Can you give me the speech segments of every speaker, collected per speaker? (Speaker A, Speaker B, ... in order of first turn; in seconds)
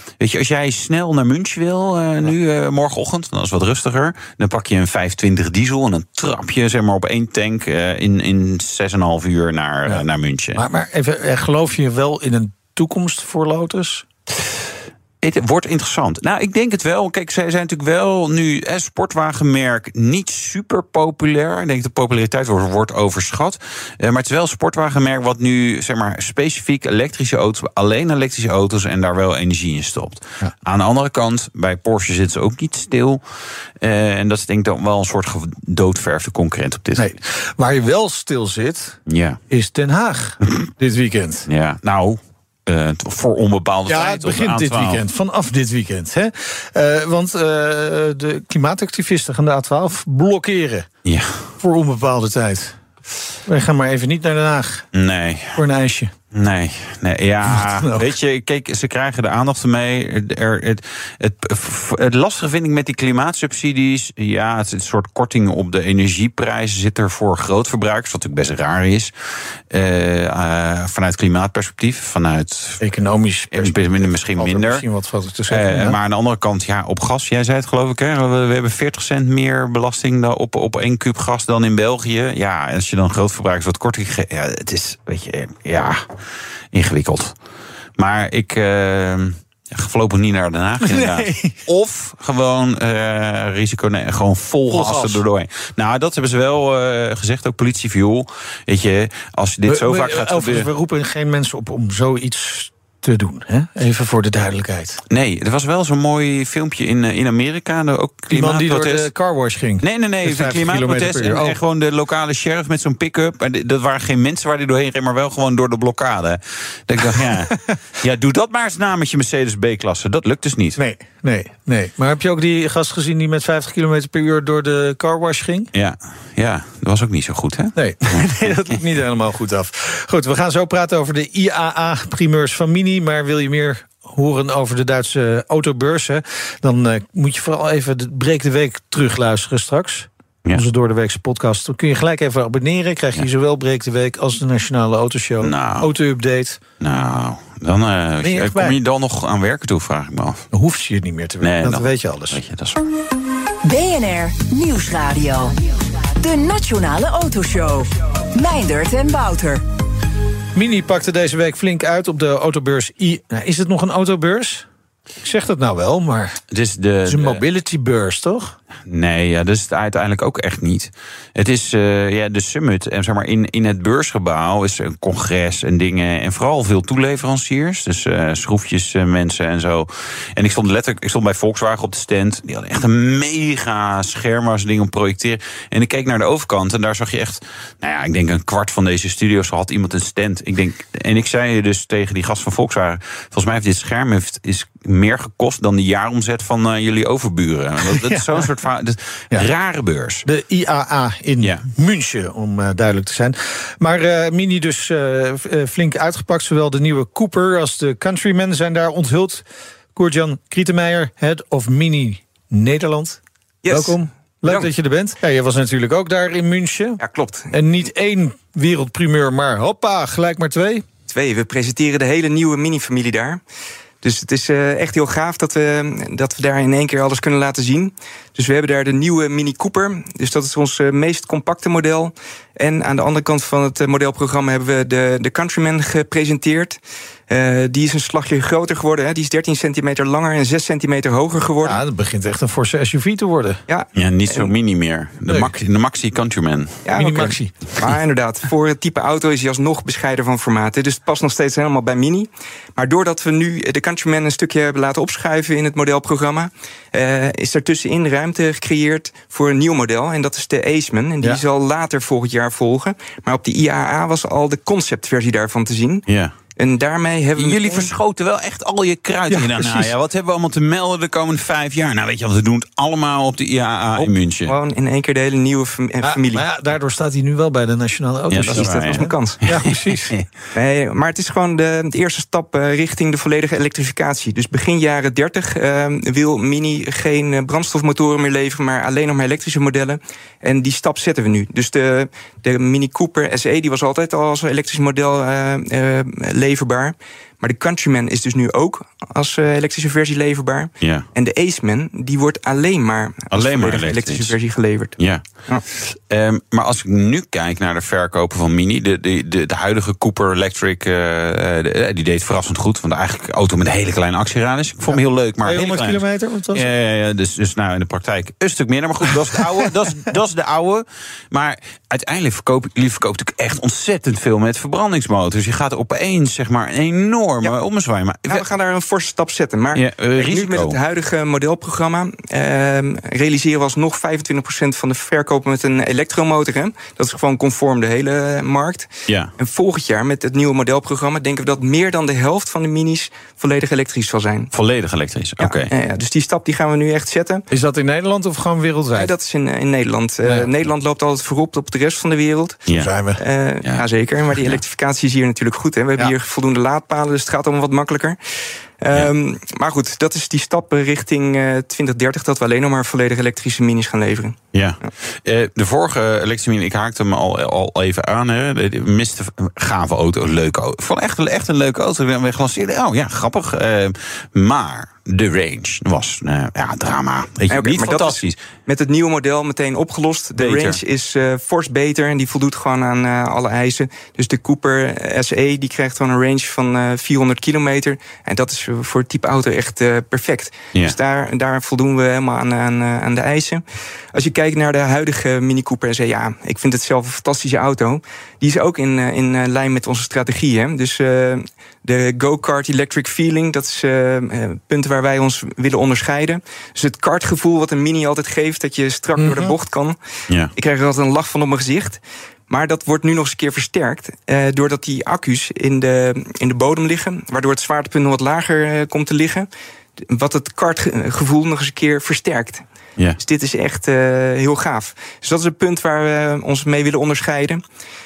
Speaker A: 0.2-10.6, 15.2-33.2, 33.8-37.1, 39.1-39.4, 41.5-45.0, 51.0-51.5, 54.9-55.6, 56.3-69.1, 69.7-72.8, 73.5-74.8, 75.5-86.0, 86.7-87.3, 88.0-100.7, 105.1-109.1, 109.8-120.8, 125.7-128.2, 145.4-145.9, 146.8-150.4, 151.4-152.8, 166.5-167.4, 168.8-200.2, 243.9-246.8, 266.1-266.3, 267.4-274.5, 278.3-280.2, 303.3-304.3, 305.0-328.4, 329.7-330.8, 339.1-339.3, 344.5-345.7, 352.7-352.9, 364.5-378.4, 380.4-380.8
Speaker B: 9.8-14.1, 37.0-39.0, 39.5-41.5, 43.9-50.9, 51.6-52.8, 53.5-54.9, 55.6-56.1, 57.5-58.1, 72.8-76.0, 90.8-91.6, 94.7-95.2, 99.6-105.0, 108.3-111.6, 117.1-117.8, 120.8-125.7, 127.8-146.6, 148.2-148.8, 150.5-152.4, 160.5-164.7, 165.2-166.4, 167.1-168.6, 197.8-198.4, 200.2-220.8, 241.6-243.6, 245.3-245.5, 246.9-247.5, 269.3-269.9, 276.0-280.1, 314.9-316.7, 347.5-349.1, 352.7-353.2, 409.2-409.5
Speaker C: 153.6-155.6, 156.2-159.6
Speaker D: 213.6-214.7, 217.0-217.6, 221.1-223.4, 224.0-241.8, 243.7-244.5, 246.8-266.0, 266.6-267.9, 273.9-276.4, 278.5-279.4, 280.5-305.6, 328.3-344.5, 345.4-347.4, 348.9-352.6, 353.2-358.2, 358.8-364.9, 377.5-393.6, 394.1-409.9, 410.6-419.5, 420.0-422.6, 423.2-427.6